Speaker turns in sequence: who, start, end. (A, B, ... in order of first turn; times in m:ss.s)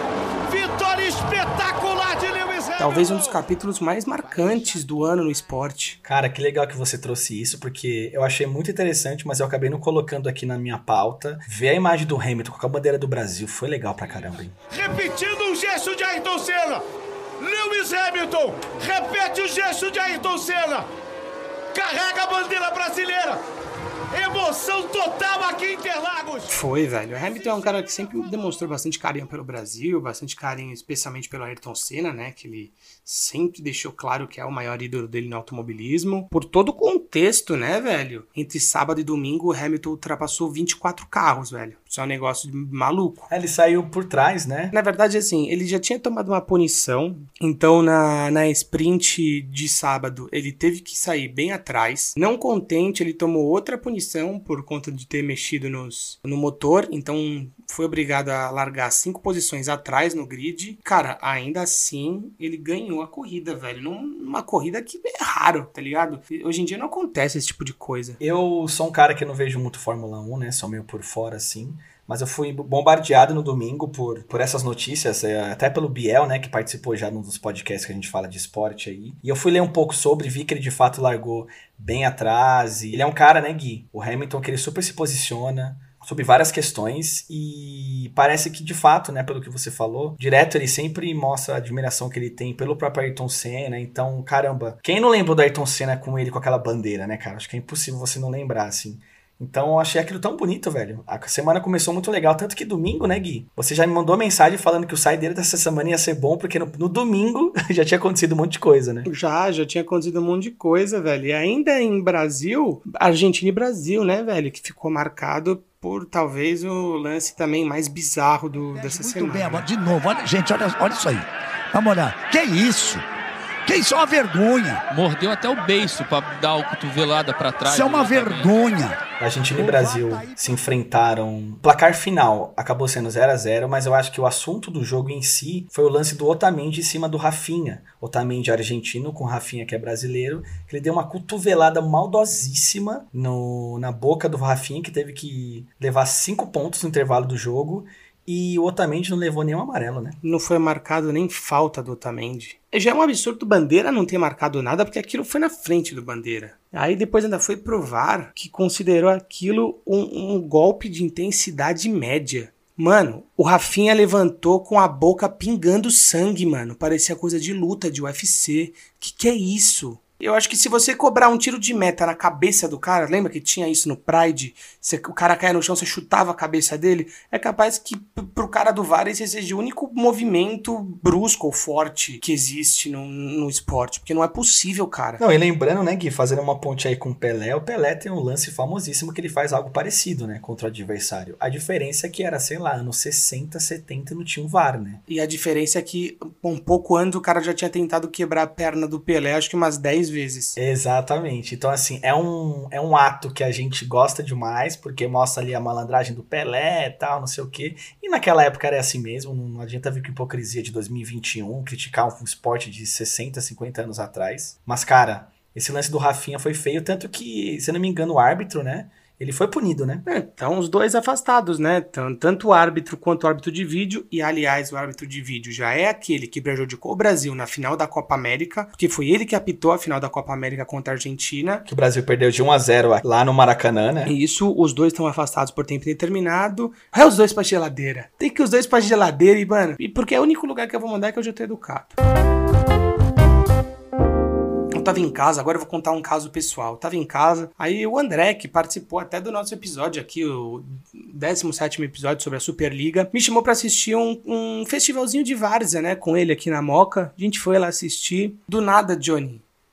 0:00.5-0:03.2 A
0:02.8-0:06.0 B
0:06.0-0:14.6 C
0:14.7-0:16.8 A
0:17.4-0:20.9 A
0:21.7-0:23.4 A
0:24.1-0:26.5 A
0:26.5-0:43.3 B
0:43.3-0:44.8 C
0:44.7-1:08.2 B
1:08.2-1:49.1 C
1:49.1-1:59.7 B
1:58.9-2:03.0 D
2:03.7-2:04.8 D
2:04.9-2:08.5 E
2:07.6-2:09.0 D
2:09.2-2:30.2 C
2:09.6-2:10.3 D
2:30.2-3:05.2 B
3:05.2-3:15.0 C
3:15.1-3:20.6 B
3:20.6-3:40.0 C
3:40.1-3:51.6 B
3:51.7-3:54.1 C
3:54.1-4:02.0 B
4:04.7-4:19.4 B